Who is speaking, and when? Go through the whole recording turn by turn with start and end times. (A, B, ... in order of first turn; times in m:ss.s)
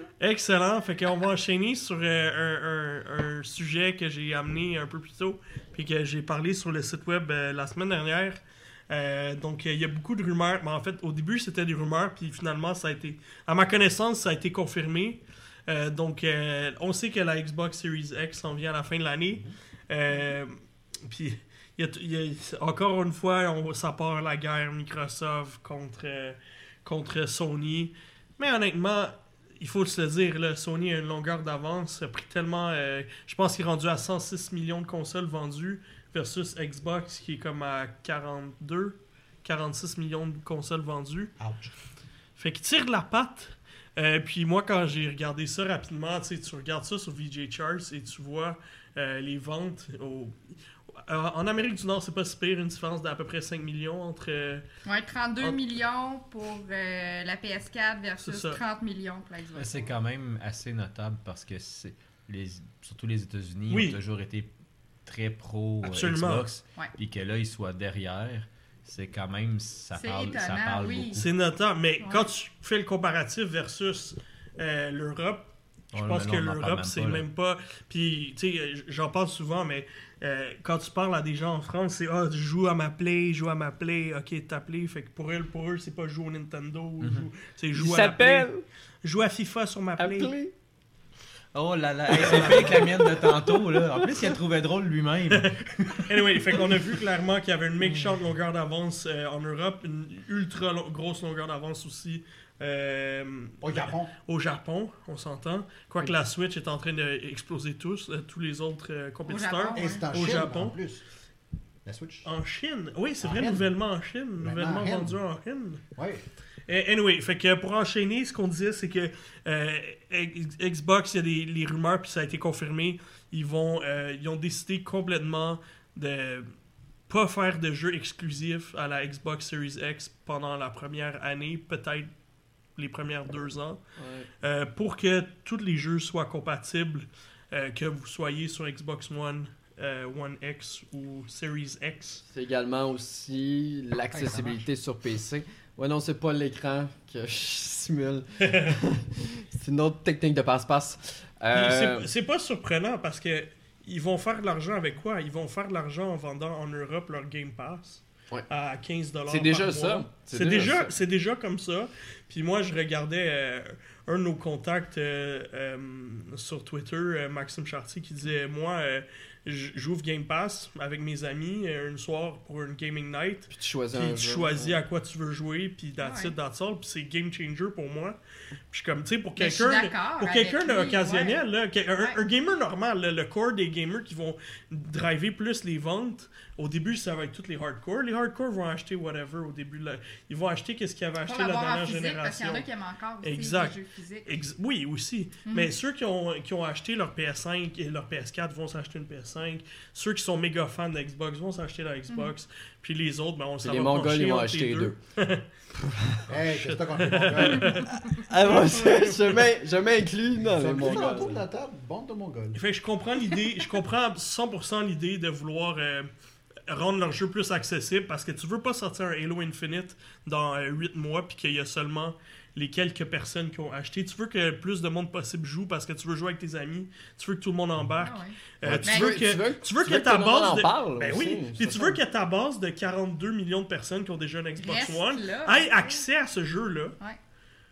0:00.2-0:41.3 A
0:41.4-0:41.7 B
0:42.4-0:54.6 A
0:54.8-0:59.9 C
0:58.2-0:58.6 A
0:59.6-1:04.5 D
1:03.7-1:04.0 A
1:05.0-1:11.3 D
1:05.8-1:06.5 A
1:09.9-1:11.2 C
1:11.2-1:28.5 A
1:12.0-1:12.3 C
1:15.9-1:17.2 D
1:27.0-1:27.3 D
1:27.7-1:28.6 E
1:29.0-1:30.3 A
1:30.0-1:30.5 E
1:31.5-1:36.8 D
1:32.1-1:34.3 E
1:32.2-1:32.8 A
1:35.3-1:50.8 A
1:37.8-1:38.1 E
1:43.6-1:44.1 B
1:49.3-1:50.0 C
1:49.7-1:51.0 B
1:51.8-1:52.3 B
1:52.2-1:55.8 A
1:53.2-1:53.7 B
1:54.4-1:55.2 B
1:55.9-1:56.2 B
1:56.7-2:06.5 A
2:07.1-2:12.1 A
2:12.8-2:13.8 A
2:14.0-2:14.3 E
2:14.4-2:22.2 A
2:22.3-2:32.1 E
2:24.1-2:24.6 D
2:28.4-2:28.8 A
2:31.5-2:58.2 A
2:39.3-2:40.9 E
2:53.5-2:54.8 E
2:56.0-2:56.3 C
2:58.7-3:12.7 A
2:59.4-3:01.4 C
3:11.2-3:14.3 C
3:13.2-3:25.4 A
3:15.4-3:15.7 C
3:23.6-3:25.0 E
3:26.3-3:27.9 B
3:26.4-3:29.5 A
3:28.3-3:31.4 E
3:30.4-3:32.6 B
3:30.8-3:31.2 A
3:32.5-3:36.1 A
3:36.7-3:57.0 A
3:48.0-3:49.2 C
3:48.6-3:52.0 E
3:54.6-3:56.0 C